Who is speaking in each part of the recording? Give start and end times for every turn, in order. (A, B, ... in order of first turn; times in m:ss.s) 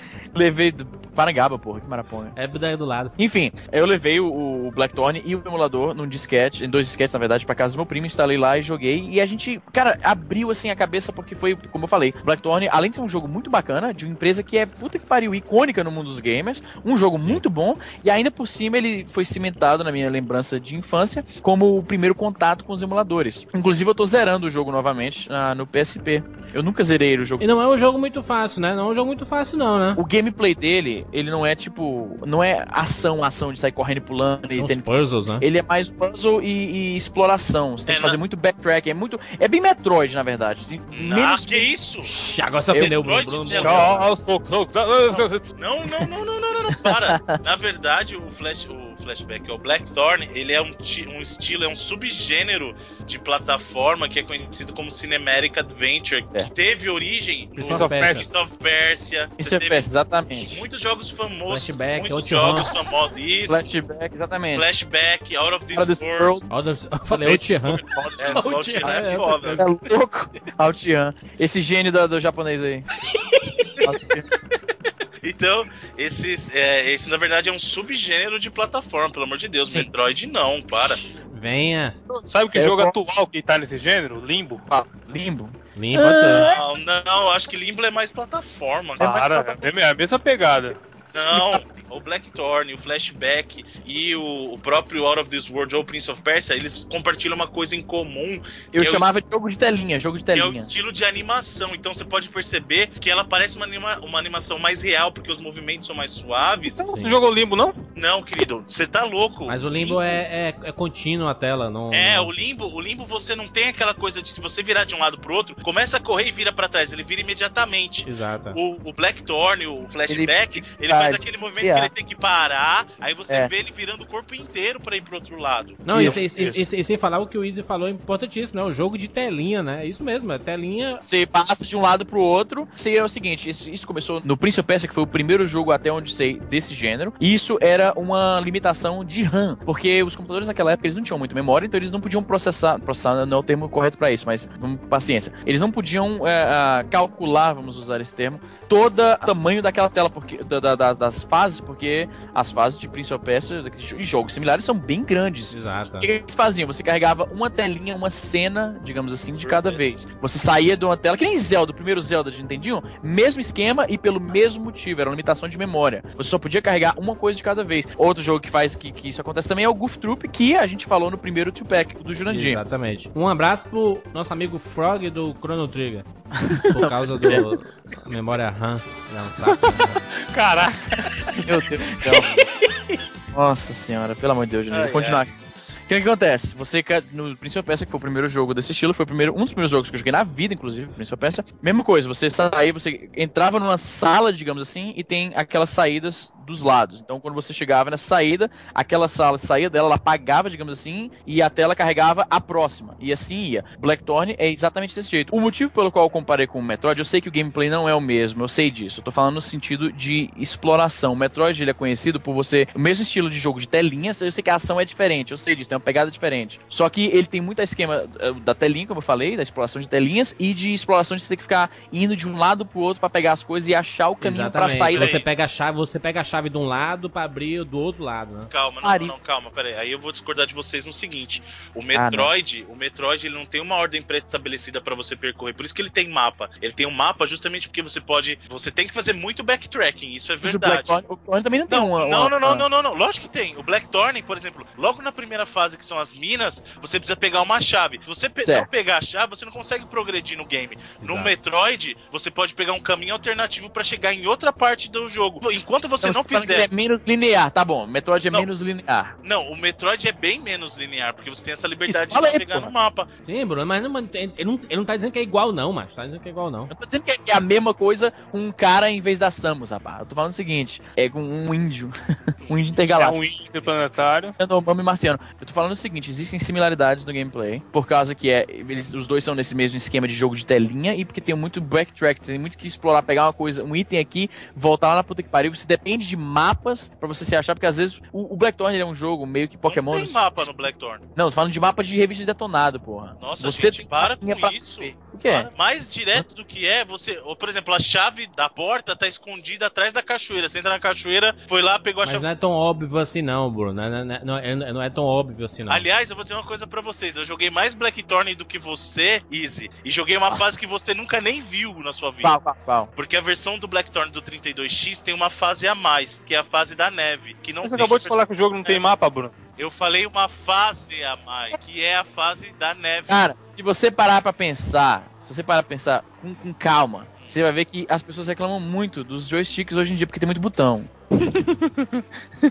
0:00.3-0:02.3 A
0:02.4-0:03.2 B
0:03.2-0:27.4 A
0:27.4-0:30.0 B
0:30.0-0:41.7 A
0:34.6-0:35.5 B
0:37.9-0:38.2 C
0:40.9-0:42.1 C
0:42.0-0:43.9 B
0:42.7-0:43.0 A
0:42.8-0:44.0 C
0:43.5-0:44.0 A
0:43.5-0:45.4 D
0:45.1-1:03.6 C
0:46.7-0:47.4 A
0:57.6-0:58.3 B
0:57.7-0:58.3 D
0:59.4-1:00.6 A
1:01.5-1:02.7 B
1:03.5-1:04.7 A
1:04.5-1:06.4 C
1:05.7-1:06.4 A
1:06.5-1:09.7 B
1:07.2-1:07.8 D
1:07.6-1:12.9 A
1:08.2-1:09.8 C
1:13.2-1:13.8 B
1:13.8-1:14.3 A
1:15.2-1:21.0 C
1:20.8-1:22.0 B
1:22.1-1:24.6 D
1:22.5-1:23.1 A
1:24.7-1:26.6 A
1:25.8-1:26.5 B
1:26.4-1:29.5 C
1:29.0-1:30.8 D
1:29.0-1:29.6 A
1:31.1-1:31.6 A
1:31.1-1:39.2 C
1:38.7-1:40.7 A
1:40.3-1:46.8 C
1:46.7-1:47.8 D
1:46.9-1:47.2 B
1:48.0-1:50.1 C
1:49.5-1:52.3 B
1:51.9-2:05.8 C
1:58.0-1:58.6 B
2:00.1-2:01.9 A
2:05.8-2:11.0 B
2:05.9-2:06.6 A
2:11.0-2:52.6 A
2:35.5-2:36.1 B
2:39.4-2:40.0 C
2:52.3-2:56.1 B
2:56.3-2:57.5 A
2:56.6-2:59.9 B
3:00.2-3:01.0 D
3:01.4-3:02.4 A
3:02.0-3:03.0 B
3:03.3-3:05.3 A
3:04.7-3:05.3 C
3:05.9-3:45.2 A
3:44.2-3:48.5 B
3:44.8-3:45.3 C
3:48.5-4:00.9 C
3:48.8-3:49.1 A
3:51.9-3:52.3 A
4:00.4-4:02.6 A
4:01.7-4:16.7 C
4:11.0-4:11.3 B
4:16.0-4:19.1 A
4:19.2-4:23.1 C
4:21.9-4:22.7 A
4:23.2-4:26.7 B
4:26.7-4:33.2 A
4:32.4-4:33.0 C
4:33.0-4:34.4 D
4:34.4-4:50.5 A
4:49.7-4:51.0 C
4:51.2-4:55.5 A
4:53.2-5:02.3 C
5:02.0-5:05.9 B
5:05.7-5:12.4 C
5:12.2-5:12.9 A
5:13.0-5:18.8 C
5:17.6-5:19.3 D
5:19.6-5:23.2 C
5:23.1-5:32.0 A